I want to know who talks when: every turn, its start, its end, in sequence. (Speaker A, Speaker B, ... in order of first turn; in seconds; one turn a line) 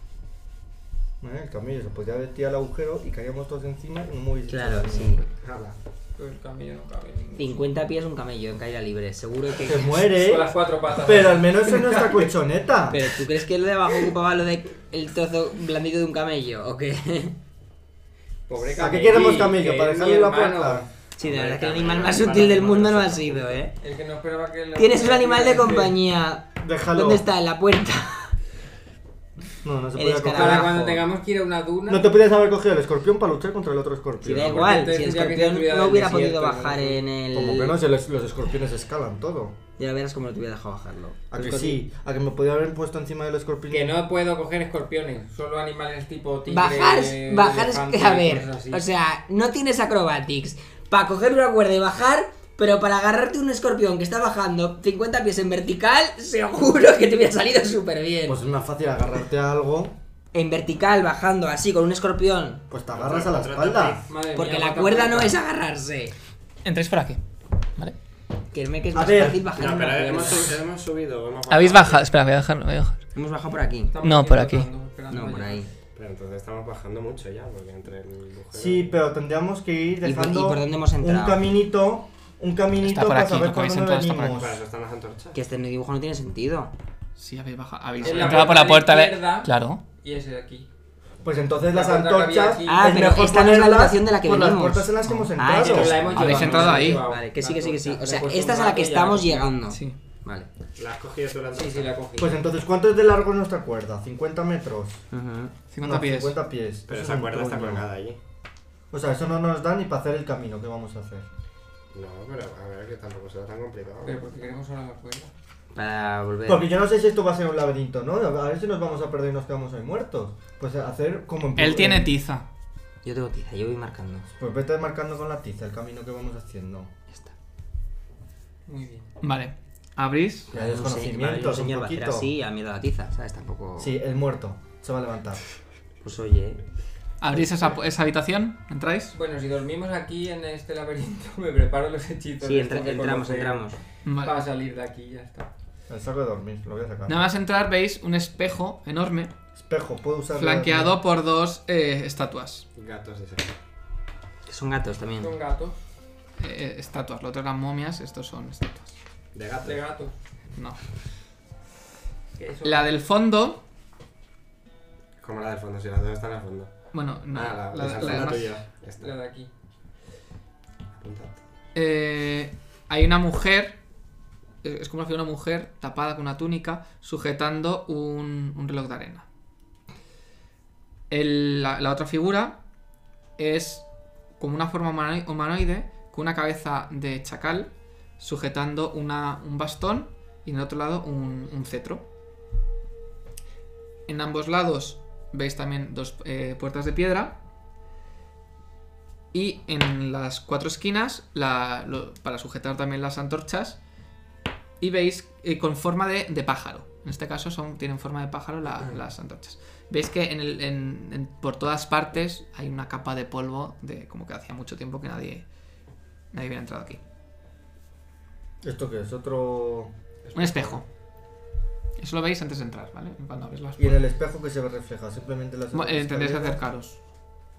Speaker A: 1.2-5.3
Speaker B: 4.5-5.3
Speaker C: 5.4-5.8
Speaker D: 6.2-7.7
Speaker B: 7.4-10.0
Speaker A: 9.6-13.0
Speaker D: 10.1-12.3
Speaker B: 12.9-17.4
Speaker D: 18.5-20.9
Speaker A: 18.8-20.9
Speaker B: 21.2-23.7
Speaker C: 21.2-23.6
Speaker D: 23.8-26.0
Speaker B: 24.8-28.3
Speaker A: 26.6-27.2
Speaker A: 29.6-30.9
Speaker B: 29.9-31.0
Speaker D: 30.2-32.1
Speaker A: 31.9-34.9
Speaker B: 34.2-37.8
Speaker D: 34.4-37.0
Speaker A: 37.3-39.5
Speaker B: 39.8-41.8
Speaker A: 41.3-44.0
Speaker D: 43.7-48.9
Speaker B: 46.5-58.4
Speaker A: 58.2-60.0
Speaker B: 60.3-62.6
Speaker A: 62.7-64.0
Speaker C: 62.9-64.1
Speaker D: 64.1-65.4
Speaker B: 64.3-66.1
Speaker E: 66.6-67.2
Speaker B: 68.5-70.6
Speaker A: 68.9-69.5
Speaker C: 69.5-72.2
Speaker E: 71.5-73.0
Speaker B: 73.1-73.9
Speaker D: 73.9-75.7
Speaker E: 74.0-74.7
Speaker B: 75.1-75.7
Speaker C: 75.9-78.9
Speaker A: 78.5-84.5
Speaker B: 80.0-81.4
Speaker E: 82.8-84.4
Speaker C: 84.3-85.4
Speaker B: 85.3-86.7
Speaker E: 87.2-89.8
Speaker C: 88.0-88.5
Speaker D: 88.0-90.7
Speaker A: 91.2-96.0
Speaker D: 91.7-93.0
Speaker B: 92.7-100.5
Speaker E: 95.0-95.3
Speaker D: 95.6-99.6
Speaker C: 95.8-96.2
Speaker E: 96.1-97.0
Speaker E: 99.7-100.0
Speaker C: 100.8-101.9
Speaker D: 101.5-102.4
Speaker A: 102.2-105.0
Speaker B: 105.1-105.5
Speaker E: 105.7-106.4
Speaker A: 105.8-107.9
Speaker C: 106.9-108.2
Speaker A: 108.9-111.2
Speaker C: 111.9-114.3
Speaker D: 114.0-115.3
Speaker B: 115.7-116.7
Speaker A: 116.5-122.1
Speaker E: 121.6-122.5
Speaker B: 123.0-124.3
Speaker A: 124.4-126.9
Speaker D: 128.7-129.1
Speaker E: 129.2-130.5
Speaker B: 130.5-133.9
Speaker A: 130.5-132.3
Speaker A: 133.8-135.4
Speaker B: 136.0-136.6
Speaker E: 137.2-139.2
Speaker D: 139.1-145.5
Speaker B: 142.4-143.8
Speaker E: 144.1-144.4
Speaker A: 145.9-147.3
Speaker E: 147.1-149.3
Speaker A: 149.6-151.0
Speaker E: 150.3-152.7
Speaker C: 152.7-153.6
Speaker B: 154.4-155.3
Speaker D: 155.2-155.8
Speaker E: 156.4-159.0
Speaker C: 159.3-159.8
Speaker D: 159.6-160.1
Speaker D: 162.4-162.9
Speaker E: 162.6-163.6
Speaker C: 165.2-169.1
Speaker E: 166.9-168.6
Speaker D: 169.0-169.5
Speaker C: 170.9-171.4
Speaker E: 171.7-173.8
Speaker E: 174.6-179.3
Speaker E: 181.1-182.6
Speaker E: 183.4-183.9
Speaker E: 184.4-192.0
Speaker E: 194.1-197.4
Speaker E: 199.3-203.8
Speaker E: 204.8-215.4
Speaker E: 216.3-217.0
Speaker A: 218.6-219.9
Speaker C: 220.2-220.8
Speaker E: 220.3-220.8
Speaker E: 222.0-224.1
Speaker A: 223.8-226.6
Speaker E: 225.7-227.0